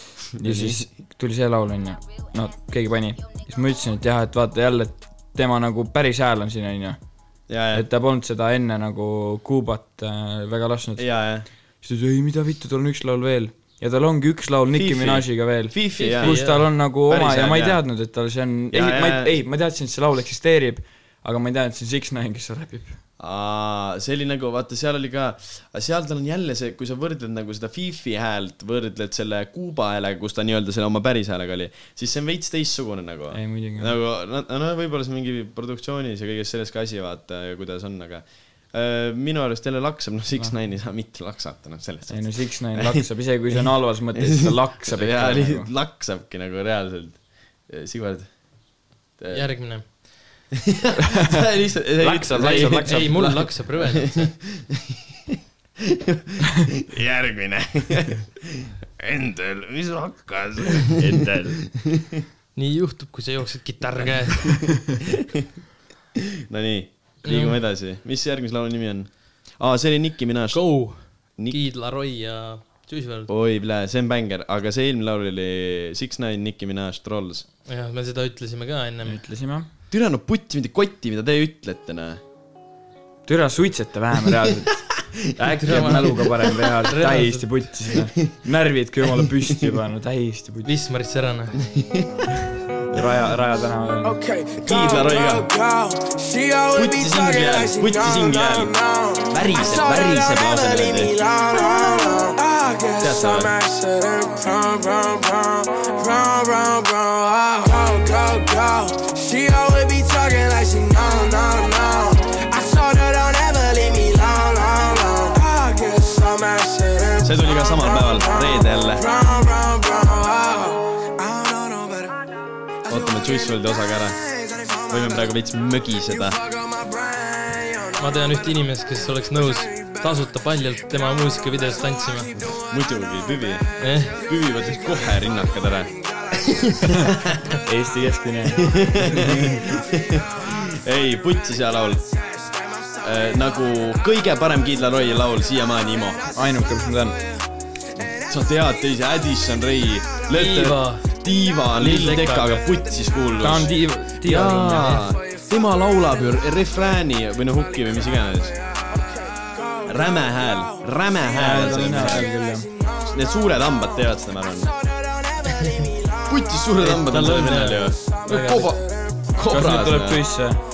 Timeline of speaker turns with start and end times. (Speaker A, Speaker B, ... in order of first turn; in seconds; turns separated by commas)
Speaker A: 0.4-7.0, Speaker B: 0.4-0.9, Speaker B: 7.5-7.9, Speaker A: 7.7-11.1, Speaker B: 11.0-11.5, Speaker A: 11.8-23.0, Speaker B: 14.7-16.5, Speaker C: 16.0-16.6, Speaker B: 17.0-17.8, Speaker B: 18.7-19.4, Speaker B: 23.2-48.4, Speaker A: 33.3-34.0, Speaker A: 42.1-45.7, Speaker B: 49.2-49.5, Speaker C: 49.3-50.3, Speaker B: 50.5-62.2, Speaker A: 52.0-53.4, Speaker C: 52.4-54.3, Speaker A: 61.0-61.6, Speaker C: 62.5-64.7, Speaker B: 65.2-65.4, Speaker B: 66.5-71.6, Speaker C: 67.2-67.6, Speaker C: 70.5-73.3, Speaker B: 73.3-77.5, Speaker C: 77.7-79.2, Speaker A: 79.0-79.7, Speaker B: 79.9-82.2, Speaker A: 83.3-90.7, Speaker C: 85.7-87.7, Speaker B: 85.7-86.0, Speaker B: 89.2-89.8, Speaker C: 90.7-91.6, Speaker B: 91.6-92.4, Speaker A: 92.9-94.2, Speaker D: 94.0-122.2, Speaker B: 94.6-95.5, Speaker B: 96.8-98.7, Speaker B: 99.3-101.1, Speaker B: 103.0-103.5, Speaker B: 117.2-119.0, Speaker D: 122.8-125.3, Speaker B: 122.9-124.2, Speaker B: 124.9-126.4, Speaker D: 126.0-128.6, Speaker C: 128.0-132.3, Speaker D: 129.3-138.1, Speaker B: 132.4-135.9, Speaker C: 133.8-134.2, Speaker B: 136.9-137.3, Speaker A: 137.7-139.6, Speaker B: 138.5-142.0, Speaker D: 139.3-148.7, Speaker B: 143.0-146.2, Speaker A: 146.3-147.2, Speaker B: 148.0-158.6, Speaker D: 149.5-150.3, Speaker C: 150.3-151.1, Speaker C: 151.8-152.7, Speaker D: 152.8-153.3, Speaker A: 153.4-155.0, Speaker D: 154.9-156.6, Speaker D: 157.5-166.7, Speaker B: 159.9-162.3, Speaker A: 161.3-162.7, Speaker B: 163.1-164.7, Speaker B: 166.3-170.2, Speaker C: 166.8-168.7, Speaker D: 167.9-169.3, Speaker A: 169.5-170.6